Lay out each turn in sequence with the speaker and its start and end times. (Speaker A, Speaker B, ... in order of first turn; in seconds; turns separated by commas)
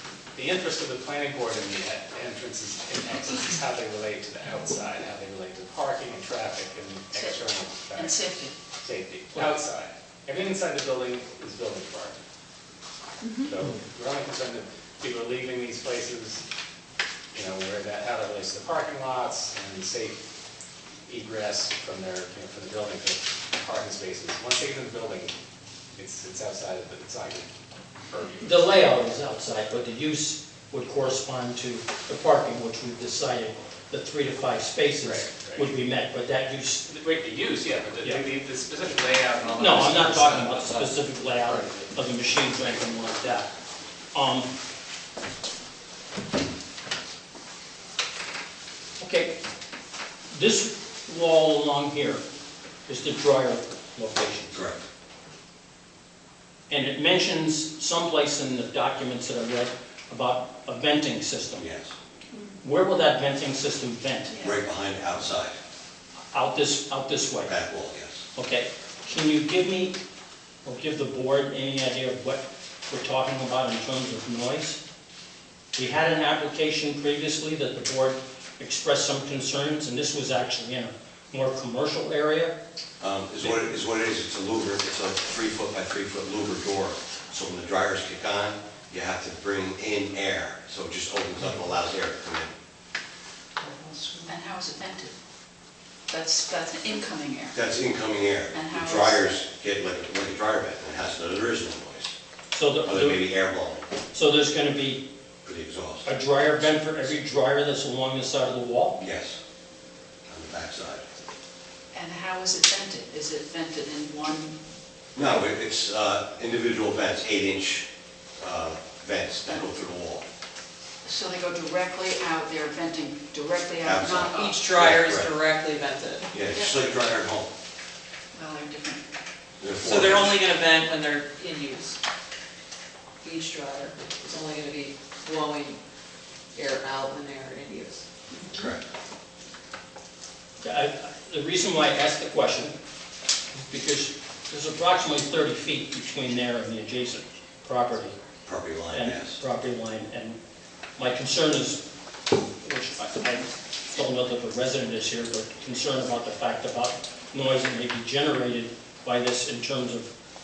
Speaker A: 0.3-12.2, Speaker B: 7.1-8.5, Speaker B: 13.2-13.5, Speaker A: 13.4-16.4, Speaker A: 17.3-20.2, Speaker A: 21.1-25.3, Speaker A: 25.9-27.5, Speaker A: 28.1-28.6, Speaker C: 28.4-36.9, Speaker A: 35.0-35.7, Speaker A: 36.9-41.9, Speaker C: 39.5-43.5, Speaker C: 44.1-44.5, Speaker C: 49.0-49.3, Speaker C: 50.3-52.2, Speaker C: 52.9-54.6, Speaker D: 54.5-54.8, Speaker C: 56.7-61.7, Speaker D: 61.6-61.9, Speaker C: 62.6-64.3, Speaker D: 64.4-65.5, Speaker C: 66.3-67.6, Speaker D: 67.4-68.2, Speaker C: 68.3-70.0, Speaker C: 70.6-74.8, Speaker C: 75.7-82.5, Speaker D: 83.0-92.5, Speaker B: 94.2-95.1, Speaker B: 96.1-97.6, Speaker D: 97.5-102.1, Speaker B: 98.5-99.2, Speaker C: 102.5-103.3, Speaker D: 102.8-103.8, Speaker C: 104.1-105.0, Speaker D: 105.4-106.1, Speaker C: 106.0-109.0, Speaker D: 109.0-109.4, Speaker D: 110.3-111.0, Speaker B: 111.9-114.5, Speaker D: 115.1-117.9, Speaker D: 118.4-120.2, Speaker B: 121.0-124.6, Speaker D: 123.8-125.3, Speaker E: 124.3-126.3, Speaker D: 126.3-127.5, Speaker B: 128.3-129.0, Speaker D: 129.6-130.4, Speaker E: 129.8-132.0, Speaker E: 133.2-135.8, Speaker E: 136.5-138.0, Speaker D: 138.5-138.8, Speaker C: 140.6-142.7, Speaker C: 143.5-148.2, Speaker D: 148.4-149.4, Speaker C: 148.9-150.4, Speaker C: 151.0-151.9, Speaker C: 152.6-160.1